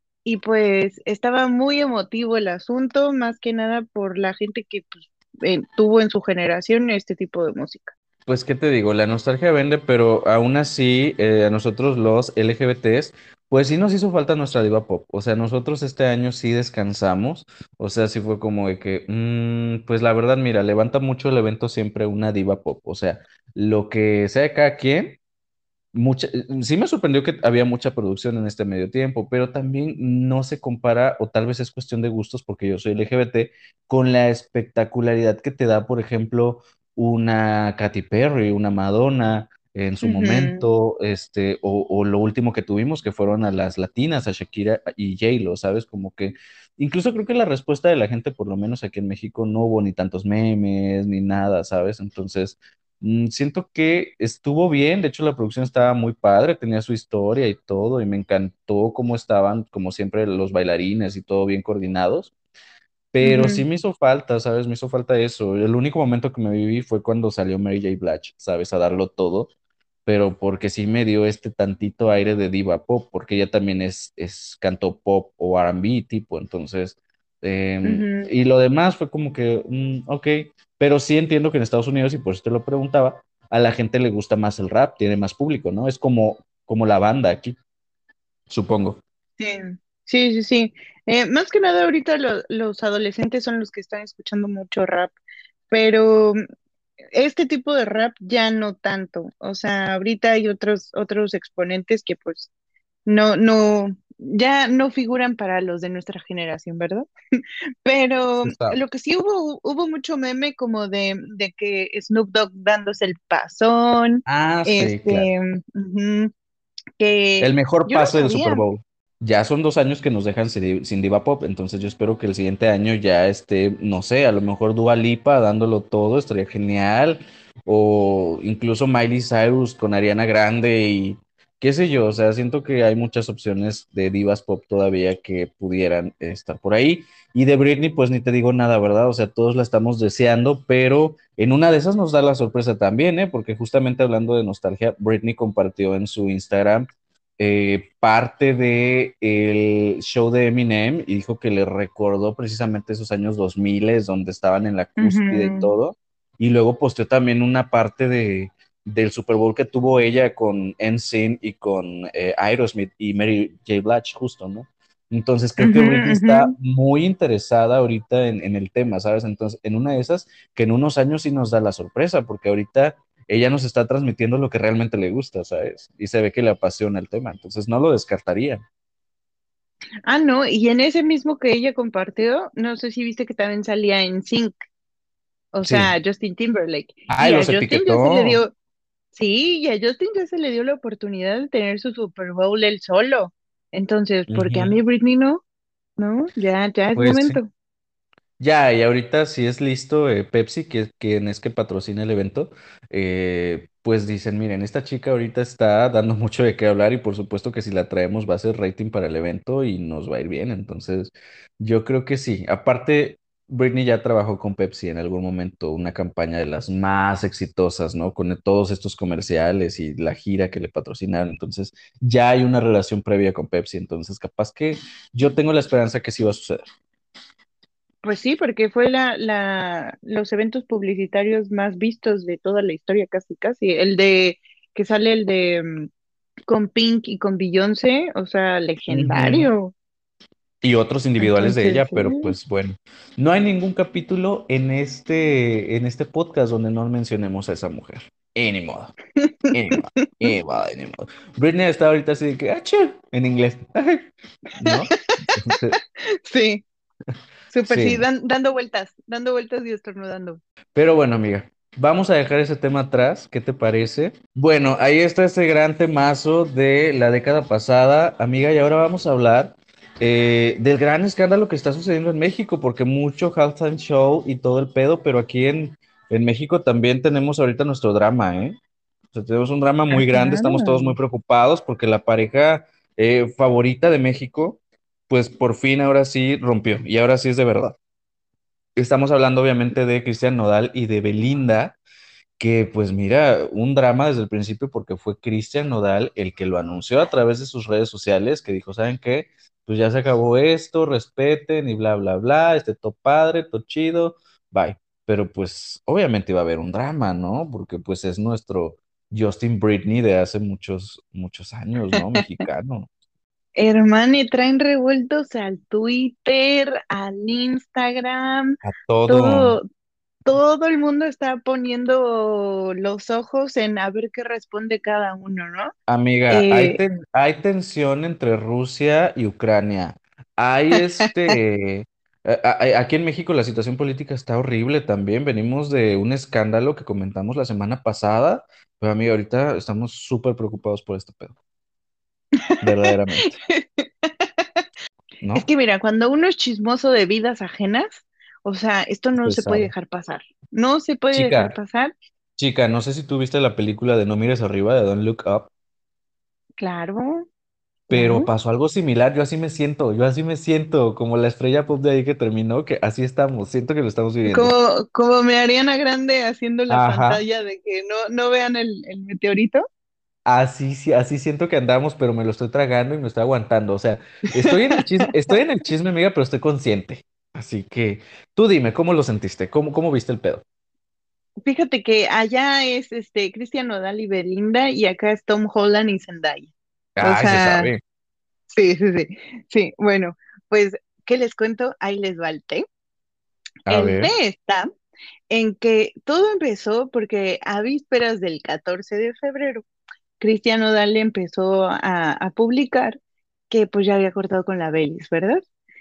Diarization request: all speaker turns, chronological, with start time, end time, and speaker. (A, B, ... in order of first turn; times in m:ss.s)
0:00.2-0:07.9 A
0:08.3-0:25.2 B
0:25.9-1:02.3 B
0:40.0-0:40.6 A
1:03.1-1:09.5 B
1:03.2-1:03.6 A
1:10.0-1:27.6 B
1:17.8-1:18.3 A
1:28.5-1:29.0 B
1:29.4-1:35.1 A
1:35.7-1:36.4 A
1:37.1-1:42.5 A
1:43.0-1:47.1 A
1:47.8-1:56.3 A
1:48.4-1:48.8 B
1:54.2-1:55.3 B
1:57.0-1:58.6 A
1:57.4-2:58.6 B
2:35.0-2:35.7 A
2:45.6-2:46.5 A
3:00.0-3:04.5 A
3:05.5-3:08.5 A
3:05.6-3:05.9 B
3:07.1-3:08.4 B
3:09.1-3:15.4 A
3:14.3-3:14.7 B
3:16.0-3:17.5 A
3:17.0-3:17.4 B
3:18.4-3:46.7 B
3:48.0-3:55.9 A
3:56.5-3:59.7 A
3:58.9-3:59.5 B
4:00.6-4:08.9 B
4:01.2-4:02.3 A
4:09.2-4:10.3 A
4:09.5-4:14.1 B
4:14.6-4:15.6 A
4:14.6-4:15.8 B
4:16.1-4:16.6 A
4:17.5-4:20.4 A
4:17.6-4:18.0 B
4:20.7-4:38.6 B
4:39.1-4:47.8 B
4:39.9-4:41.0 A
4:48.8-4:51.8 B
4:52.4-5:12.9 B
5:13.6-5:19.6 A
5:18.6-5:19.6 B
5:20.2-5:25.7 A
5:25.9-5:41.4 B
5:26.3-5:26.8 A
5:42.5-5:44.5 A
5:42.6-5:43.3 B
5:45.3-5:51.9 A
5:49.2-5:49.7 B
5:51.1-5:51.6 B
5:52.4-5:55.5 B
5:56.6-5:57.2 A
5:57.9-5:58.3 A
5:57.9-6:04.5 B
6:04.3-6:09.6 A
6:06.7-6:07.2 B
6:10.3-6:20.4 B
6:14.4-6:15.1 A
6:21.4-6:27.7 A
6:27.0-6:27.8 B
6:28.5-6:32.6 A
6:33.7-6:34.1 B
6:33.7-6:34.7 A
6:35.3-6:39.6 A
6:40.2-6:43.0 A
6:43.5-6:45.4 A